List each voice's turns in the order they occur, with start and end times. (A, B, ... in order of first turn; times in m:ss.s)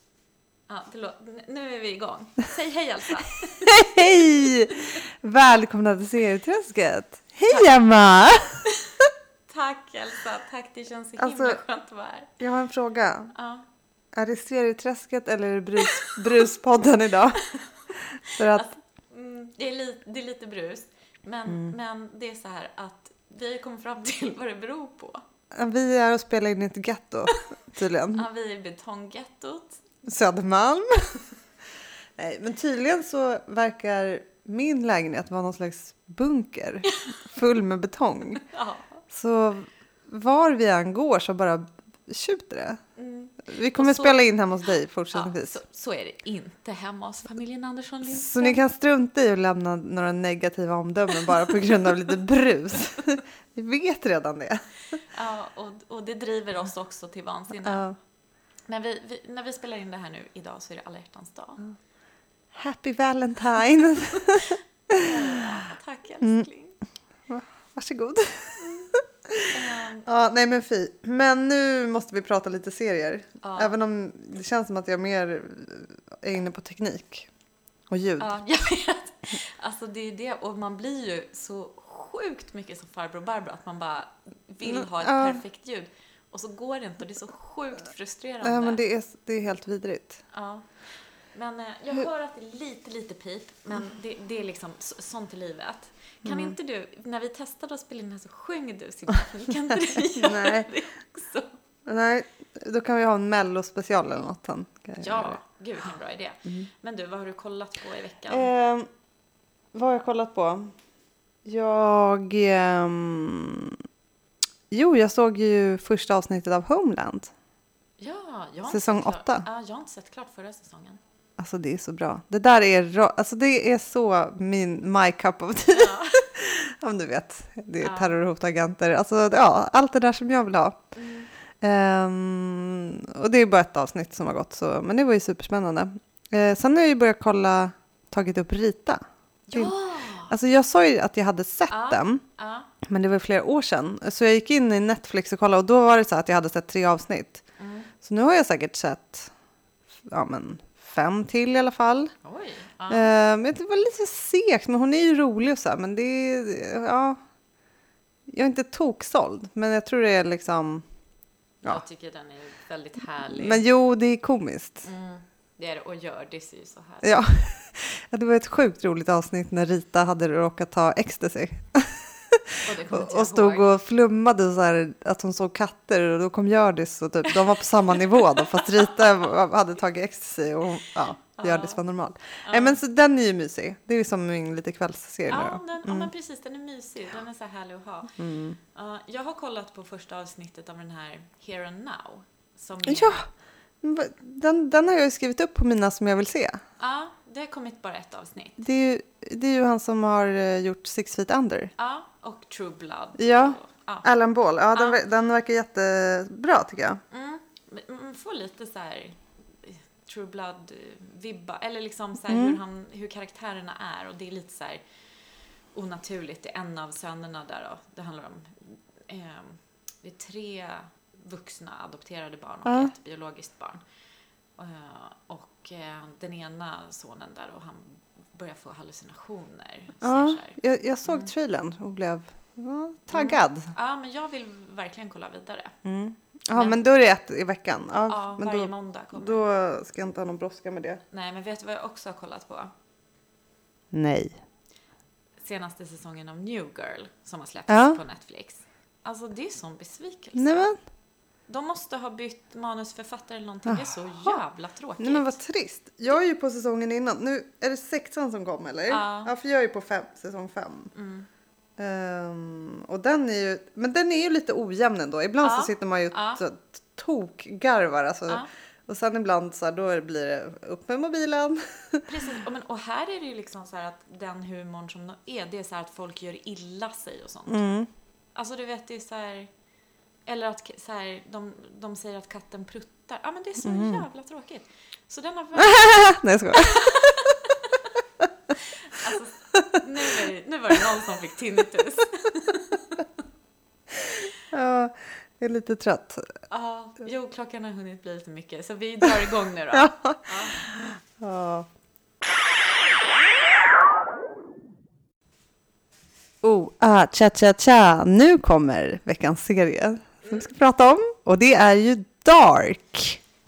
0:00.7-0:04.8 A
0:03.6-0:08.6 B
0:08.7-0:08.9 A
0:09.5-0:12.3 A
0:11.2-0:11.6 B
0:12.4-0:13.3 B
0:13.3-0:13.6 A
0:14.1-0:17.4 B
0:15.9-0:16.1 A
0:18.1-0:18.7 B
0:18.2-0:25.2 A
0:21.5-0:21.7 B
0:25.5-0:28.2 B
0:28.1-0:29.8 A
0:30.0-0:31.2 B
0:32.2-0:38.4 B
0:36.9-0:37.2 A
0:38.4-0:38.9 A
0:39.1-0:42.8 B
0:43.0-0:44.2 A
0:43.4-0:45.5 B
0:45.1-0:48.6 A
0:48.0-0:54.6 B
0:55.1-0:57.9 A
0:57.6-0:58.0 B
0:58.7-1:01.6 A
1:02.5-1:05.4 B
1:04.4-1:06.8 A
1:06.2-1:06.5 B
1:07.3-1:17.3 B
1:08.6-1:08.9 A
1:09.5-1:10.0 A
1:13.4-1:13.7 A
1:17.9-1:18.3 B
1:18.2-1:28.8 A
1:24.6-1:25.4 B
1:28.4-1:30.2 B
1:30.3-1:30.7 A
1:31.3-1:41.5 A
1:36.2-1:36.5 B
1:40.0-1:40.7 B
1:41.8-1:45.4 B
1:45.0-1:48.5 A
1:48.3-1:48.9 B
1:49.7-1:50.7 B
1:51.4-1:53.8 B
1:54.7-1:57.3 B
1:58.0-2:01.0 A
1:58.7-1:59.4 B
2:01.4-2:10.8 B
2:05.7-2:06.2 A
2:07.8-2:08.1 A
2:11.0-2:11.3 A
2:11.6-2:19.0 B
2:19.5-2:20.3 A
2:20.3-2:22.2 B
2:21.7-2:22.7 A
2:22.8-2:27.4 B
2:27.6-2:27.9 A
2:28.0-2:29.3 B
2:30.1-2:32.1 B
2:32.2-2:33.1 A
2:32.9-2:37.2 B
2:38.3-2:40.8 B
2:41.6-2:43.6 A
2:43.3-2:44.8 B
2:44.8-2:47.2 A
2:47.0-3:06.1 B
2:52.6-2:53.7 A
2:58.1-2:59.1 A
3:01.4-3:01.8 A
3:02.4-3:02.8 A
3:05.3-3:08.1 A
3:08.2-3:08.6 B
3:08.7-3:13.2 A
3:12.8-3:13.2 B
3:13.8-3:16.6 B
3:16.8-3:18.6 A
3:18.6-3:21.7 B
3:21.8-3:24.1 A
3:23.2-3:27.0 B
3:24.7-3:25.0 A
3:27.1-3:34.8 A
3:32.3-3:32.6 B
3:35.7-3:43.8 A
3:42.6-3:42.9 B
3:44.6-3:51.3 A
3:50.0-3:53.7 B
3:53.1-3:55.7 A
3:55.8-4:01.0 B
3:56.5-3:56.8 A
3:58.1-3:59.4 A
4:01.1-4:02.7 A
4:03.9-4:04.4 B
4:05.4-4:10.7 A
4:07.7-4:08.0 B
4:10.4-4:10.8 B
4:11.5-4:15.3 A
4:13.7-4:14.4 B
4:15.0-4:20.9 B
4:18.9-4:19.3 A
4:20.9-4:21.3 A
4:21.8-4:32.0 B
4:25.4-4:26.4 A
4:32.1-4:37.6 A
4:37.5-4:37.9 B
4:38.3-4:39.5 A
4:40.2-4:48.0 A
4:43.6-4:44.0 B
4:45.6-4:47.1 B
4:48.5-4:53.0 A
4:49.5-4:49.8 B
4:53.9-4:56.3 B
4:56.5-5:00.6 A
4:59.7-5:01.7 B
5:06.4-5:13.2 B